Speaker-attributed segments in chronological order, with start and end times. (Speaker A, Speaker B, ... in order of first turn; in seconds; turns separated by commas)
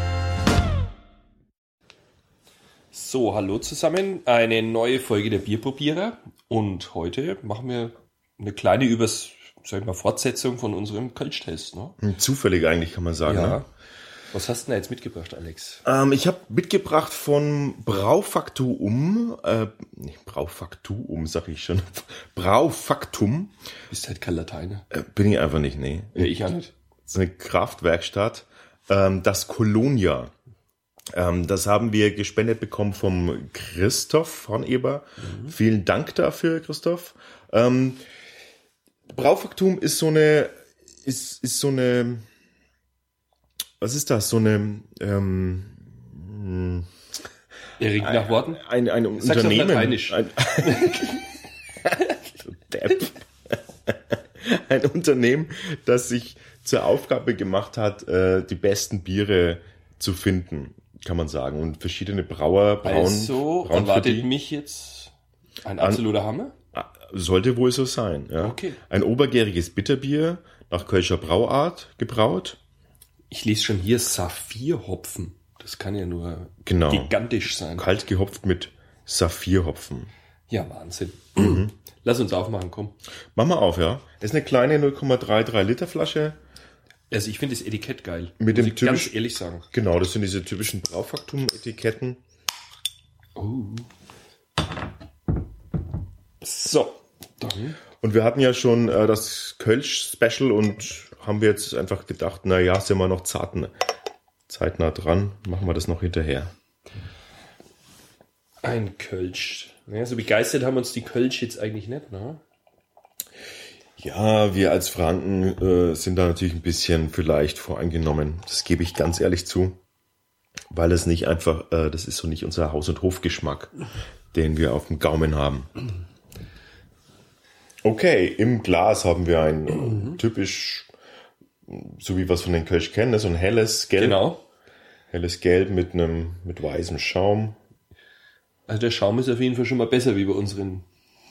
Speaker A: 2.9-12.0, Speaker B: 12.0-13.6, Speaker A: 13.2-13.7, Speaker A: 14.3-15.8, Speaker B: 15.8-23.5, Speaker A: 23.9-24.8, Speaker B: 24.9-30.3, Speaker A: 26.1-26.7, Speaker B: 31.1-38.0, Speaker A: 35.2-35.5, Speaker B: 39.1-42.2, Speaker B: 43.8-46.9, Speaker A: 47.8-48.6, Speaker B: 48.0-51.1, Speaker A: 49.2-52.2, Speaker B: 52.4-64.3, Speaker A: 62.8-65.1, Speaker A: 65.6-66.5, Speaker B: 65.8-66.0, Speaker B: 66.7-72.6, Speaker A: 68.4-68.8, Speaker A: 73.3-77.9, Speaker B: 76.6-77.1, Speaker B: 77.8-80.1, Speaker A: 80.5-83.0, Speaker B: 81.4-81.7, Speaker B: 83.3-86.4, Speaker A: 87.1-89.7, Speaker B: 88.4-89.1, Speaker B: 89.7-92.2, Speaker A: 93.3-93.9, Speaker A: 96.4-97.8, Speaker B: 98.0-103.7, Speaker B: 104.5-106.5, Speaker A: 108.6-112.4, Speaker B: 114.0-119.8, Speaker B: 120.7-123.8, Speaker B: 124.3-125.7, Speaker B: 127.8-130.9, Speaker B: 131.7-134.3, Speaker A: 134.0-134.4, Speaker B: 135.1-137.6, Speaker A: 138.7-140.8